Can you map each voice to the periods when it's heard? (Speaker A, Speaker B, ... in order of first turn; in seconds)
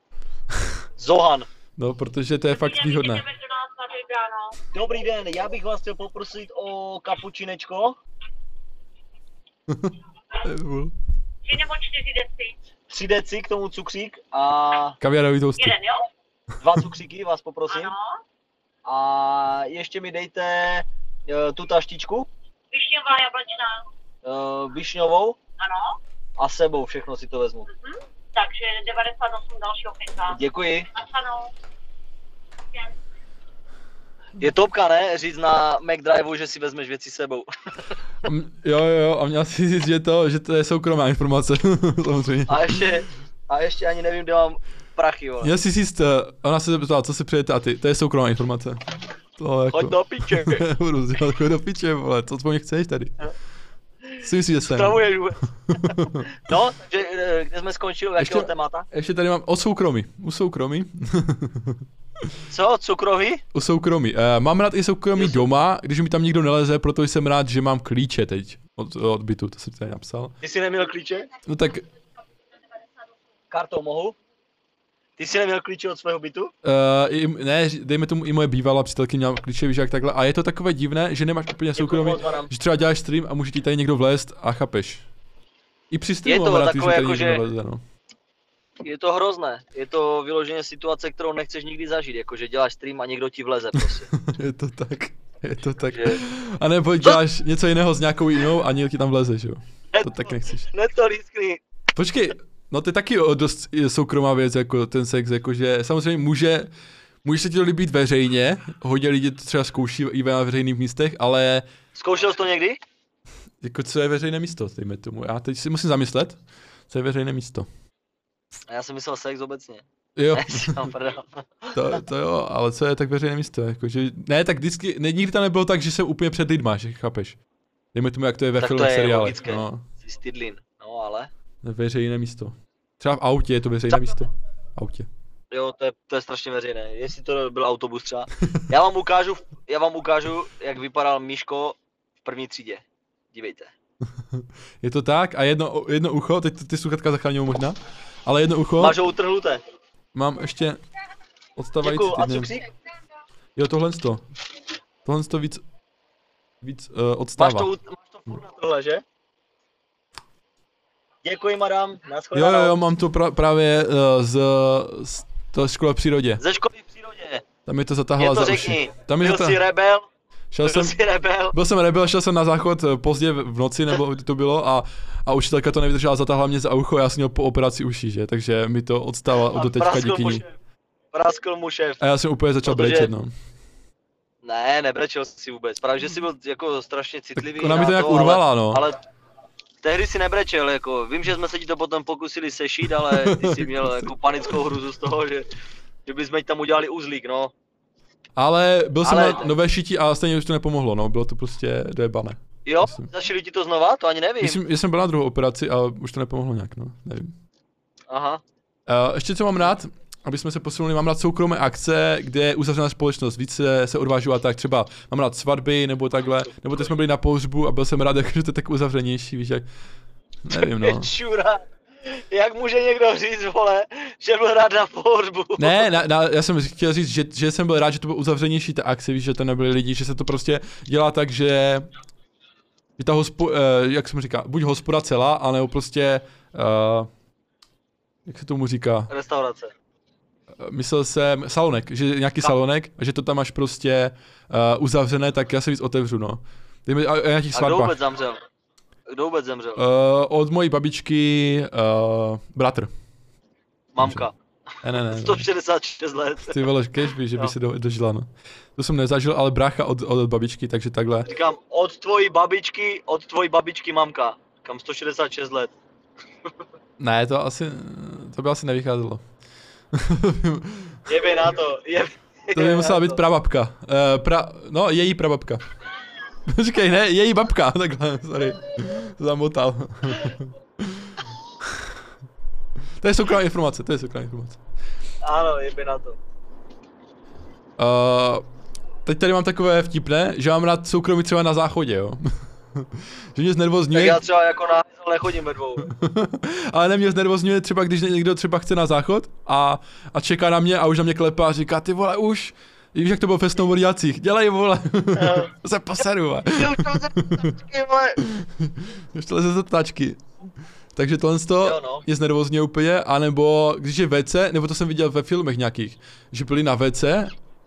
Speaker A: 1.0-1.5, 4.7-8.0, 12.9-15.0, 16.6-17.9, 18.9-22.3, 24.2-25.4, 26.4-27.7, 30.3-30.9, 34.4-38.0, 42.5-45.5, 49.7-50.6, 54.6-58.9, 62.5-63.4, 65.2-65.5, 70.4-71.3, 73.5-74.2, 75.2-76.5, 81.8-82.5, 86.3-87.5, 88.8-94.1, 95.9-96.2, 99.9-101.6, 112.0-112.8, 118.7-119.8, 120.3-122.0, 128.6-131.3, 133.9-134.2, 135.5-143.7, 148.8-149.6, 151.8-152.7, 157.4-159.0, 161.2-162.8, 166.4-167.4, 168.2-170.1, 170.6-171.6, 179.5-180.5, 181.1-182.0, 182.7-183.1, 184.4-189.0, 189.8-195.5, 196.1-197.5, 199.0-199.5, 202.7-204.6, 208.1-208.4, 220.5-225.9, 239.1-239.7, 247.5-248.4, 249.1-249.8, 253.9-254.3, 255.1-256.6, 261.3-265.7, 271.1-273.2, 285.2-286.2, 293.9-295.9, 305.2-305.5, 306.5-308.2, 311.6-312.1
Speaker B: 1.8-3.3, 9.7-10.9, 15.0-15.8, 38.2-42.9, 45.4-53.1, 54.2-55.1, 55.7-56.3, 58.2-61.8, 63.5-70.3, 71.5-71.9, 76.6-85.0, 85.9-87.8, 94.1-100.7, 102.0-106.7, 107.2-111.7, 113.6-117.7, 120.2-120.9, 121.8-127.4, 127.9-129.8, 131.6-135.1, 144.2-149.0, 150.1-150.8, 151.6-152.6, 153.6-154.3, 155.0-155.6, 156.6-157.7, 162.3-166.4, 167.7-169.6, 170.5-171.0, 171.5-180.4, 182.0-183.3, 187.4-188.8, 193.1-194.1, 198.4-203.1, 204.4-207.3, 208.9-219.7, 220.4-221.1, 225.6-231.9, 233.0-237.1, 238.3-239.1, 240.6-248.0, 249.8-252.9, 254.0-254.3, 254.8-255.5, 256.5-261.3, 267.0-269.2, 269.9-271.1, 272.5-275.7, 276.5-281.9, 283.0-284.6, 287.8-288.4, 289.1-294.2, 295.8-307.5, 308.2-310.2, 311.0-317.3
Speaker C: 2.5-4.6, 11.4-12.6, 15.6-16.1, 17.7-18.2, 22.7-23.8, 25.6-26.0, 27.8-30.4, 30.9-31.5